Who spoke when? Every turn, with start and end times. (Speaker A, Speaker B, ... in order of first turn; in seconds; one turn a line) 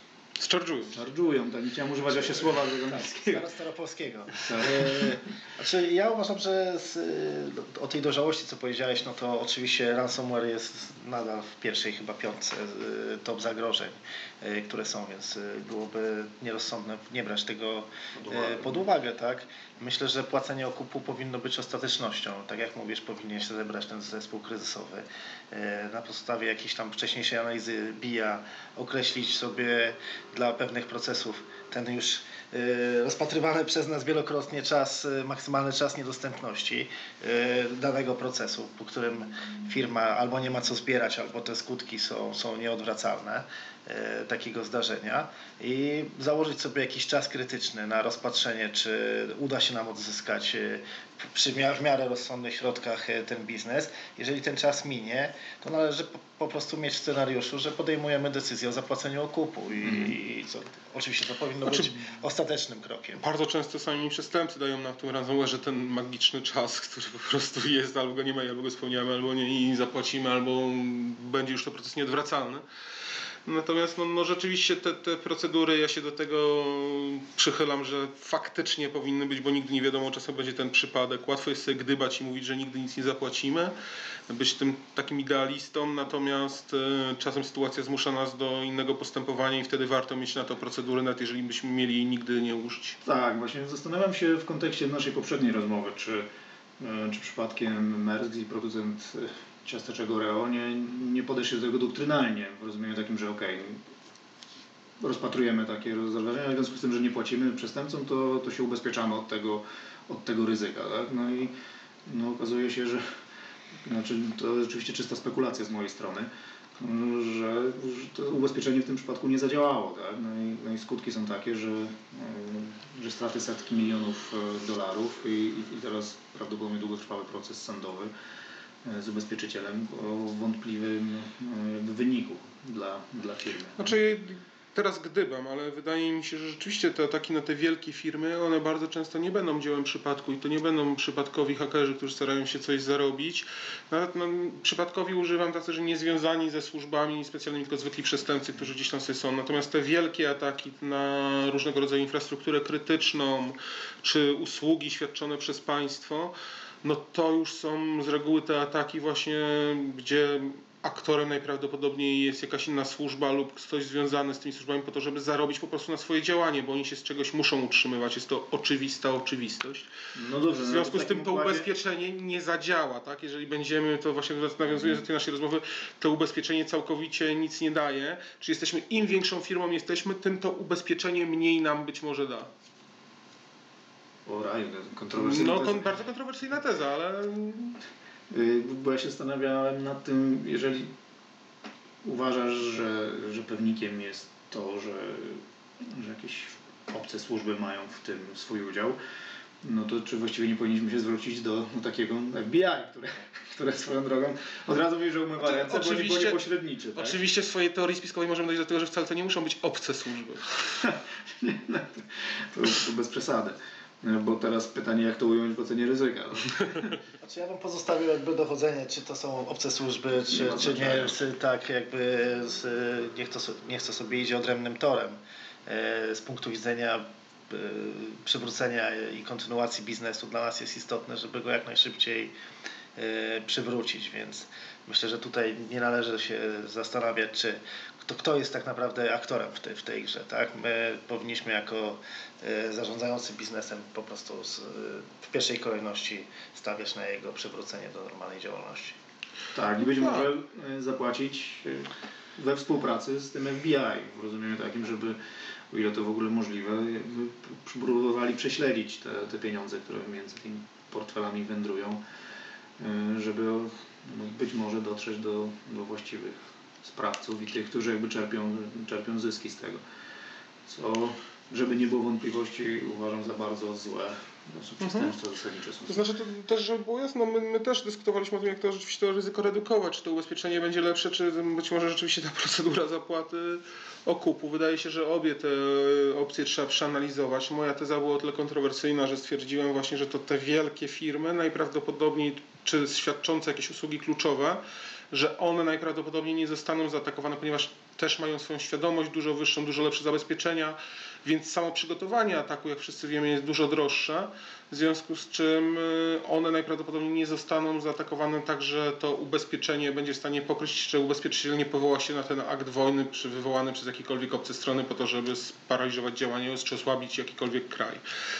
Speaker A: 0.4-1.0
Speaker B: 0.9-3.5
Speaker C: 2.1-63.2
Speaker B: 4.4-5.2
Speaker B: 18.1-18.9
Speaker B: 59.8-60.1
Speaker A: 61.6-62.0
Speaker A: 63.2-72.6
Speaker A: 73.5-83.7
Speaker A: 84.3-93.0
Speaker B: 93.0-96.3
Speaker B: 96.8-103.8
Speaker B: 105.0-111.5
Speaker B: 112.0-113.0
Speaker B: 113.8-128.1
Speaker B: 128.8-133.9
Speaker A: 133.8-169.9
Speaker B: 170.1-171.7
Speaker A: 170.5-182.5
Speaker B: 184.2-185.9
Speaker A: 185.1-187.8
Speaker B: 188.3-190.9
Speaker B: 192.0-199.0
Speaker B: 199.6-207.2
Speaker A: 205.4-206.4
Speaker A: 206.9-210.6
Speaker B: 210.8-216.8
Speaker C: 217.2-232.3
Speaker B: 220.3-221.2
Speaker C: 232.9-249.0
Speaker B: 249.5-255.2
Speaker A: 249.9-250.3
Speaker B: 255.7-262.0
Speaker B: 262.8-269.8
Speaker B: 270.6-276.0
Speaker A: 274.8-275.1
Speaker A: 275.9-318.0